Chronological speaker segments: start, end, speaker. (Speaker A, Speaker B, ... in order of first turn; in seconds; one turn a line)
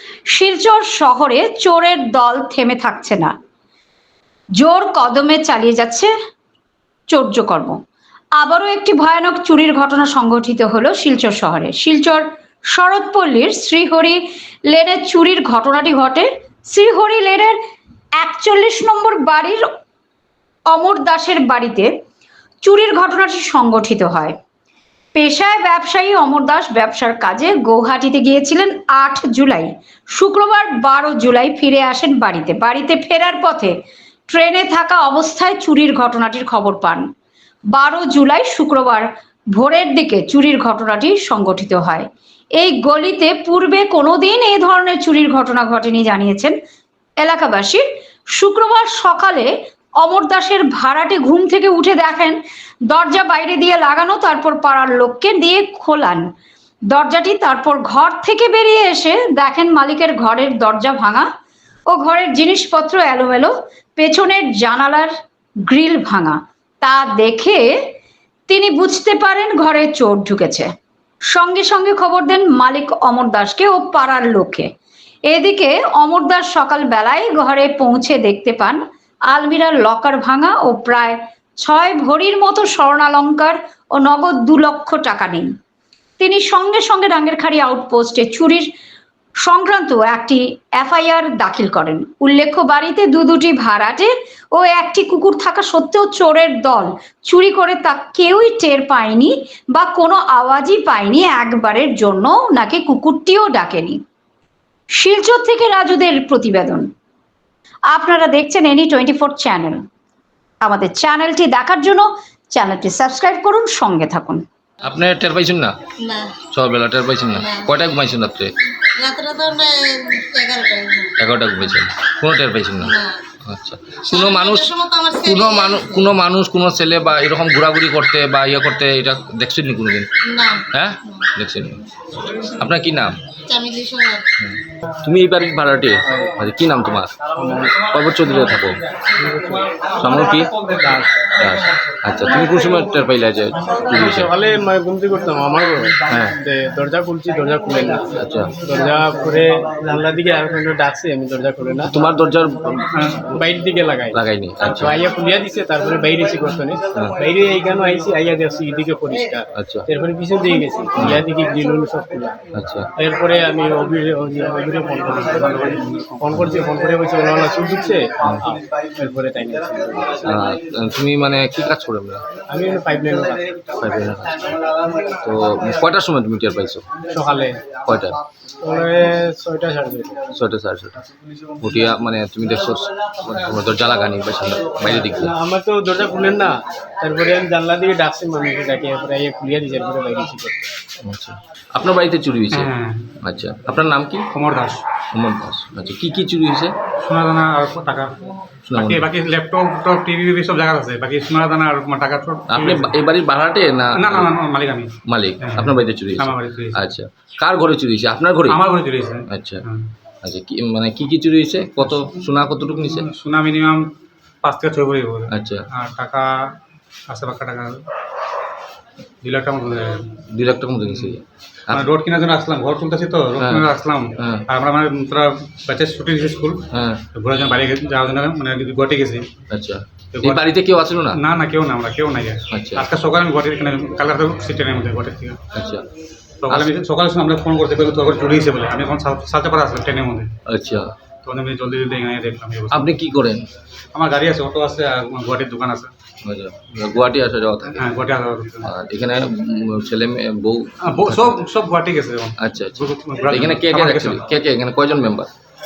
Speaker A: 0.3-3.3
Speaker A: 4.6-6.1
Speaker A: 7.1-7.7
Speaker A: 8.4-14.2
Speaker A: 14.7-17.6
Speaker A: 18.2-19.6
Speaker A: 20.7-21.9
Speaker A: 22.6-24.3
Speaker A: 25.1-33.7
Speaker A: 34.3-37.0
Speaker A: 37.7-46.5
Speaker A: 47.2-47.8
Speaker A: 48.3-52.4
Speaker A: 52.9-56.2
Speaker A: 56.9-61.3
Speaker A: 61.9-65.1
Speaker A: 65.7-67.7
Speaker A: 68.5-70.7
Speaker A: 71.3-74.7
Speaker A: 75.3-85.5
Speaker A: 86.2-88.7
Speaker A: 89.4-104.0
Speaker A: 104.9-106.9
Speaker A: 107.9-109.8
Speaker A: 110.6-114.4
Speaker B: 114.8-115.8
Speaker C: 116.0-116.4
Speaker B: 116.5-118.5
Speaker C: 117.4-117.7
Speaker C: 119.0-121.2
Speaker B: 121.2-130.1
Speaker C: 122.8-123.2
Speaker C: 124.1-126.1
Speaker C: 130.3-131.2
Speaker B: 130.7-131.8
Speaker B: 132.4-133.2
Speaker C: 133.5-134.3
Speaker B: 134.4-138.8
Speaker D: 136.1-136.4
Speaker D: 137.4-137.8
Speaker D: 139.0-139.7
Speaker B: 140.0-140.5
Speaker D: 140.8-141.1
Speaker B: 141.4-144.3
Speaker D: 143.9-151.9
Speaker B: 146.1-146.4
Speaker B: 148.2-148.5
Speaker B: 151.9-153.1
Speaker E: 152.9-153.2
Speaker D: 153.3-162.4
Speaker B: 154.1-155.0
Speaker B: 159.6-159.9
Speaker B: 161.0-161.2
Speaker B: 162.5-162.9
Speaker D: 163.0-165.7
Speaker E: 165.1-166.4
Speaker D: 166.2-170.4
Speaker B: 170.2-172.2
Speaker D: 172.5-173.4
Speaker B: 173.8-174.4
Speaker B: 175.2-176.8
Speaker D: 177.1-177.7
Speaker B: 177.8-178.2
Speaker D: 178.6-180.3
Speaker B: 180.3-181.0
Speaker B: 181.6-185.3
Speaker D: 185.1-190.6
Speaker B: 191.0-192.7
Speaker E: 192.5-193.2
Speaker B: 193.2-194.3
Speaker E: 194.3-194.8
Speaker B: 195.1-196.8
Speaker E: 197.0-198.1
Speaker B: 198.7-199.1
Speaker E: 198.8-202.9
Speaker B: 202.5-204.3
Speaker E: 204.0-206.8
Speaker B: 205.1-208.6
Speaker E: 208.5-209.9
Speaker B: 209.3-209.6
Speaker B: 210.2-213.1
Speaker E: 213.0-213.9
Speaker E: 214.4-216.5
Speaker B: 215.3-215.7
Speaker E: 217.1-217.8
Speaker E: 219.2-220.2
Speaker B: 220.3-221.9
Speaker E: 221.7-226.6
Speaker B: 223.4-224.4
Speaker B: 226.7-227.0
Speaker E: 227.2-229.3
Speaker B: 229.5-231.2
Speaker E: 230.1-230.4
Speaker E: 231.1-235.4
Speaker B: 232.5-232.8
Speaker B: 235.5-235.9
Speaker E: 236.4-240.3
Speaker B: 240.5-240.9
Speaker E: 241.2-242.9
Speaker B: 242.7-243.5
Speaker E: 243.9-245.9
Speaker B: 246.2-247.9
Speaker E: 247.7-248.7
Speaker B: 248.6-251.4
Speaker E: 250.8-254.2
Speaker B: 252.4-255.3